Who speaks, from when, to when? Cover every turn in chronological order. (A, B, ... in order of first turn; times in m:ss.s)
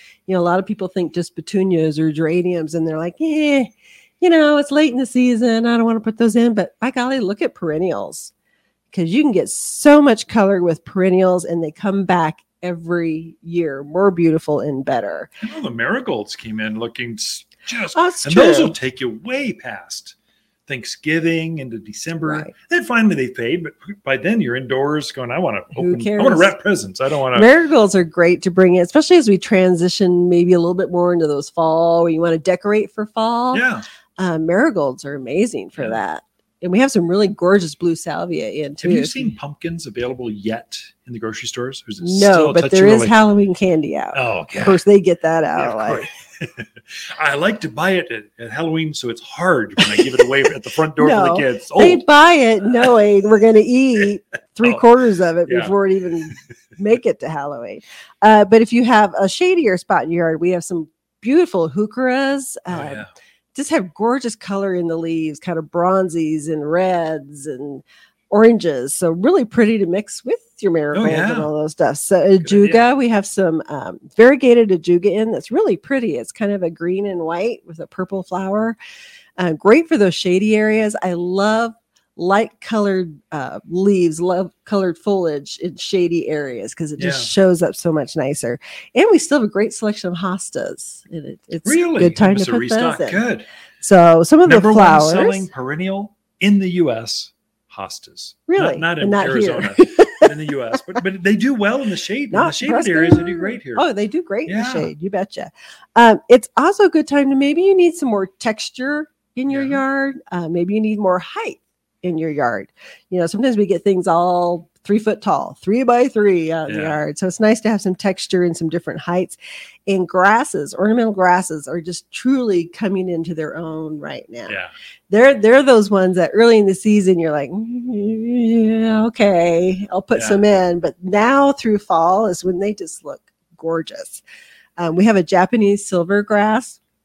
0:00.3-0:08.3 A
0:08.9-0:15.3 A
0:15.4-0:20.2 B
0:17.9-0:18.8 A
0:20.7-0:27.5 B
0:22.2-0:22.5 A
0:25.7-0:26.6 A
0:27.3-0:33.7 A
0:33.5-0:33.8 B
0:34.2-0:39.2 A
0:38.8-0:43.2 B
0:42.0-0:46.1 A
0:44.1-0:44.8 B
0:45.6-0:52.0 B
0:51.0-1:18.8 A
0:55.5-0:55.7 B
1:02.7-1:03.1 B
1:10.9-1:11.5 B
1:12.4-1:12.9 B
1:19.4-1:33.2 A
1:27.0-1:27.3 B
1:31.6-1:33.5 B
1:33.8-1:35.5 A
1:34.5-1:43.8 B
1:38.5-1:40.8 A
1:42.3-2:04.6 A
1:44.5-1:44.9 B
1:49.5-1:49.8 B
1:56.7-1:57.0 B
2:04.5-2:04.7 B
2:05.1-2:14.2 A
2:10.1-2:10.6 B
2:14.8-2:16.8 A